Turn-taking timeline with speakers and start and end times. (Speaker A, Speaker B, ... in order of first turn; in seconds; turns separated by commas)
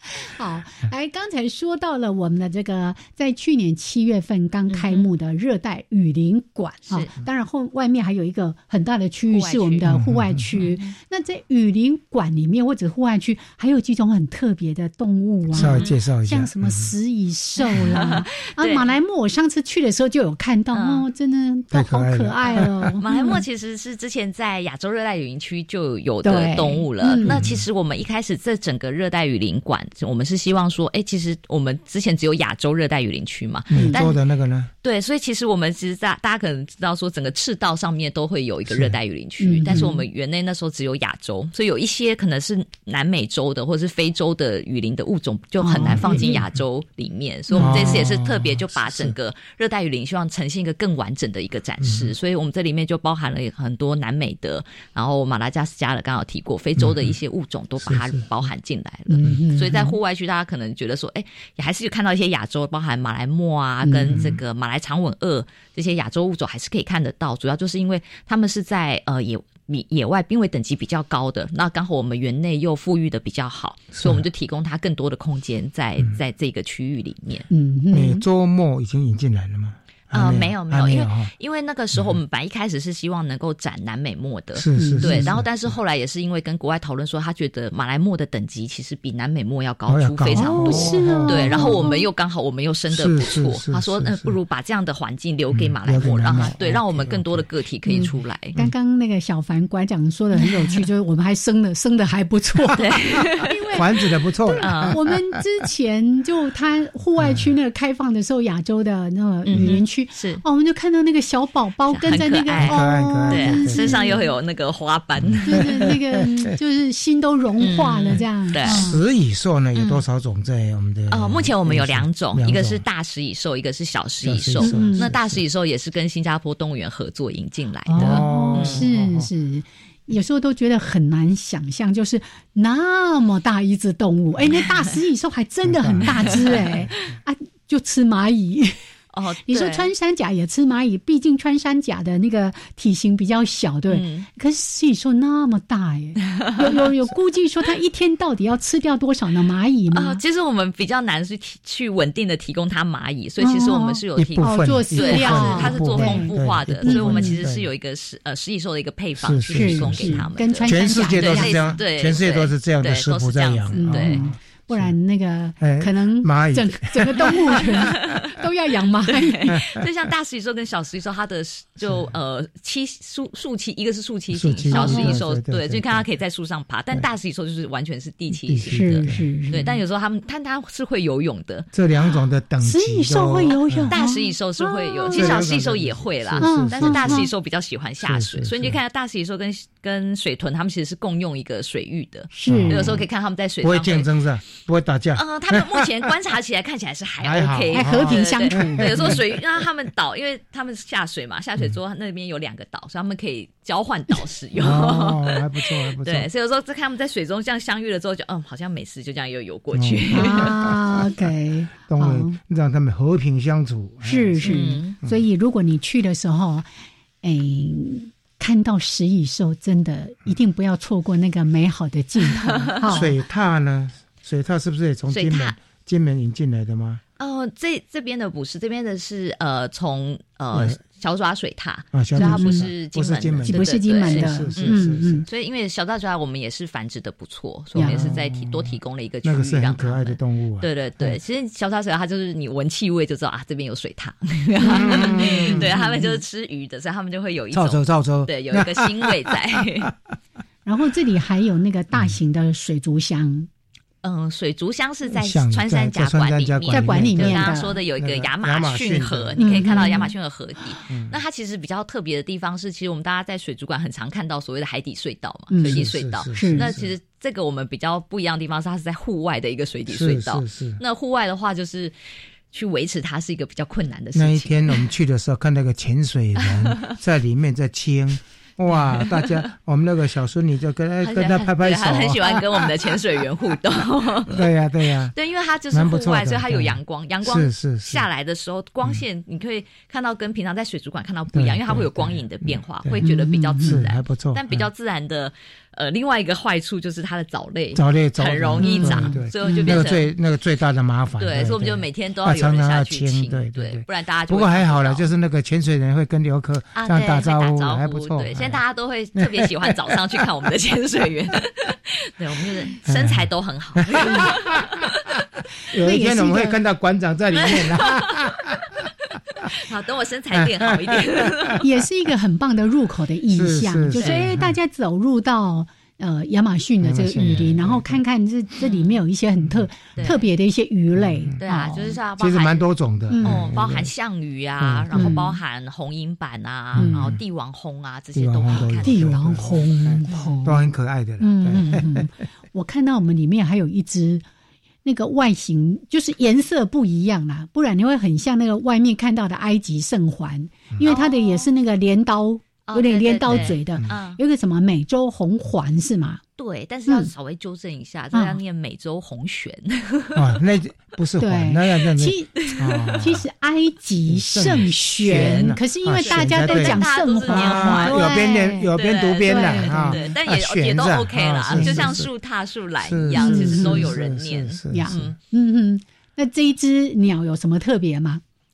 Speaker A: 0.2-23.4, Speaker B: 4.7-5.1, Speaker B: 9.3-9.9, Speaker C: 9.8-10.5, Speaker B: 10.6-11.0, Speaker C: 15.5-16.9, Speaker B: 15.6-16.0, Speaker B: 17.6-18.9, Speaker B: 20.7-21.1, Speaker C: 21.7-23.0, Speaker B: 22.4-34.2, Speaker A: 26.2-27.4, Speaker C: 27.2-27.6, Speaker C: 33.7-34.7, Speaker A: 33.7-34.0, Speaker B: 34.8-77.5, Speaker C: 38.7-39.0, Speaker A: 39.4-40.0, Speaker A: 45.6-46.4, Speaker C: 45.9-46.2, Speaker A: 47.5-48.0, Speaker C: 47.6-49.2, Speaker C: 51.8-52.1, Speaker C: 56.8-57.1, Speaker C: 57.8-58.2, Speaker A: 59.1-59.9, Speaker A: 63.8-64.3, Speaker C: 74.0-74.2, Speaker A: 77.5-78.2, Speaker C: 77.9-81.3, Speaker B: 80.1-98.5, Speaker C: 84.5-85.7, Speaker A: 84.8-85.3, Speaker C: 89.9-91.9, Speaker A: 90.4-92.0, Speaker C: 92.9-94.3, Speaker C: 95.5-97.5, Speaker A: 97.9-102.8, Speaker B: 102.7-103.5, Speaker A: 103.4-103.9, Speaker C: 103.7-105.4, Speaker A: 104.4-114.3, Speaker B: 104.6-105.0, Speaker C: 107.2-107.5, Speaker B: 109.5-110.4, Speaker C: 109.5-109.8, Speaker B: 111.9-115.8, Speaker C: 112.6-114.2, Speaker C: 115.2-116.0, Speaker A: 115.5-119.0, Speaker B: 117.6-118.9, Speaker C: 118.7-122.8, Speaker B: 119.8-120.0, Speaker B: 121.1-128.8, Speaker C: 124.2-125.4, Speaker A: 124.6-125.1, Speaker A: 127.9-138.7, Speaker C: 127.9-129.3, Speaker C: 135.7-137.1, Speaker B: 136.1-136.4, Speaker B: 139.1-139.9, Speaker A: 139.5-150.2, Speaker B: 143.9-144.3, Speaker B: 146.3-146.8, Speaker B: 149.9-164.2, Speaker A: 153.4-156.3, Speaker C: 154.2-157.7, Speaker A: 156.8-157.4, Speaker C: 159.2-165.0, Speaker A: 159.5-161.8, Speaker A: 163.8-169.5, Speaker C: 165.6-168.0, Speaker B: 167.8-168.2, Speaker B: 169.1-181.7, Speaker C: 169.5-169.8, Speaker C: 171.8-172.1, Speaker C: 174.3-176.0, Speaker A: 174.7-175.2, Speaker C: 178.5-179.7, Speaker A: 178.7-179.7, Speaker C: 181.7-183.9, Speaker A: 182.6-185.4, Speaker B: 183.9-194.1, Speaker C: 185.1-187.3, Speaker A: 186.4-187.3, Speaker C: 188.0-188.8, Speaker A: 192.3-192.9, Speaker C: 192.5-193.1, Speaker C: 193.6-196.1, Speaker B: 195.2-205.5, Speaker C: 197.2-199.3, Speaker A: 197.7-199.2, Speaker C: 204.5-206.3, Speaker B: 206.0-210.6, Speaker C: 209.7-211.2, Speaker A: 210.1-212.4, Speaker C: 211.9-215.2, Speaker A: 214.0-216.7, Speaker B: 214.4-215.0, Speaker A: 217.2-223.1, Speaker B: 222.2-223.1, Speaker C: 222.9-227.0, Speaker B: 225.1-225.6, Speaker B: 227.2-249.9, Speaker C: 230.5-230.8, Speaker C: 231.9-235.3, Speaker A: 232.2-232.7, Speaker A: 233.5-235.2, Speaker A: 237.8-238.1, Speaker C: 237.8-241.2, Speaker C: 244.6-245.8, Speaker A: 244.6-246.2, Speaker C: 247.5-249.9, Speaker A: 250.7-253.5, Speaker B: 254.0-271.9, Speaker C: 255.1-260.0, Speaker A: 256.7-257.8, Speaker A: 259.4-260.1, Speaker C: 260.9-261.1, Speaker A: 265.5-266.7, Speaker C: 265.6-266.9, Speaker C: 269.9-270.8, Speaker B: 272.5-274.8, Speaker C: 274.1-282.9, Speaker B: 276.4-276.9, Speaker B: 278.9-279.4, Speaker B: 281.0-284.4, Speaker C: 284.2-285.1, Speaker B: 285.1-300.1, Speaker C: 285.7-288.1, Speaker C: 291.3-293.0, Speaker A: 293.0-293.8, Speaker C: 293.6-294.7, Speaker C: 297.8-308.6, Speaker A: 298.6-299.8, Speaker B: 301.2-305.1, Speaker B: 306.8-314.9, Speaker C: 309.2-310.2, Speaker C: 312.9-314.9, Speaker C: 315.7-318.6, Speaker A: 315.8-316.6, Speaker B: 317.3-318.3, Speaker B: 319.1-321.6, Speaker C: 320.3-321.6, Speaker A: 321.6-332.0, Speaker C: 323.3-324.6, Speaker B: 324.0-324.3, Speaker C: 326.8-328.0, Speaker B: 328.6-329.0, Speaker C: 329.4-330.1, Speaker B: 330.0-330.3, Speaker C: 330.9-331.4, Speaker B: 331.4-332.7, Speaker C: 332.2-333.9, Speaker A: 333.1-333.4, Speaker B: 333.2-339.2, Speaker C: 334.6-335.3, Speaker A: 334.9-335.4, Speaker C: 336.7-337.2, Speaker A: 336.8-337.2, Speaker C: 338.1-342.1, Speaker A: 338.8-344.2, Speaker A: 344.9-356.2, Speaker B: 350.9-351.5, Speaker B: 352.7-354.2, Speaker C: 353.3-353.9, Speaker B: 356.4-360.3, Speaker A: 358.1-358.4, Speaker C: 360.1-363.2, Speaker A: 361.2-368.7, Speaker B: 362.6-363.1, Speaker C: 364.1-372.1, Speaker B: 365.1-375.2, Speaker A: 369.2-370.1, Speaker A: 371.5-371.9, Speaker C: 372.8-375.1, Speaker A: 373.1-373.9, Speaker A: 374.7-378.2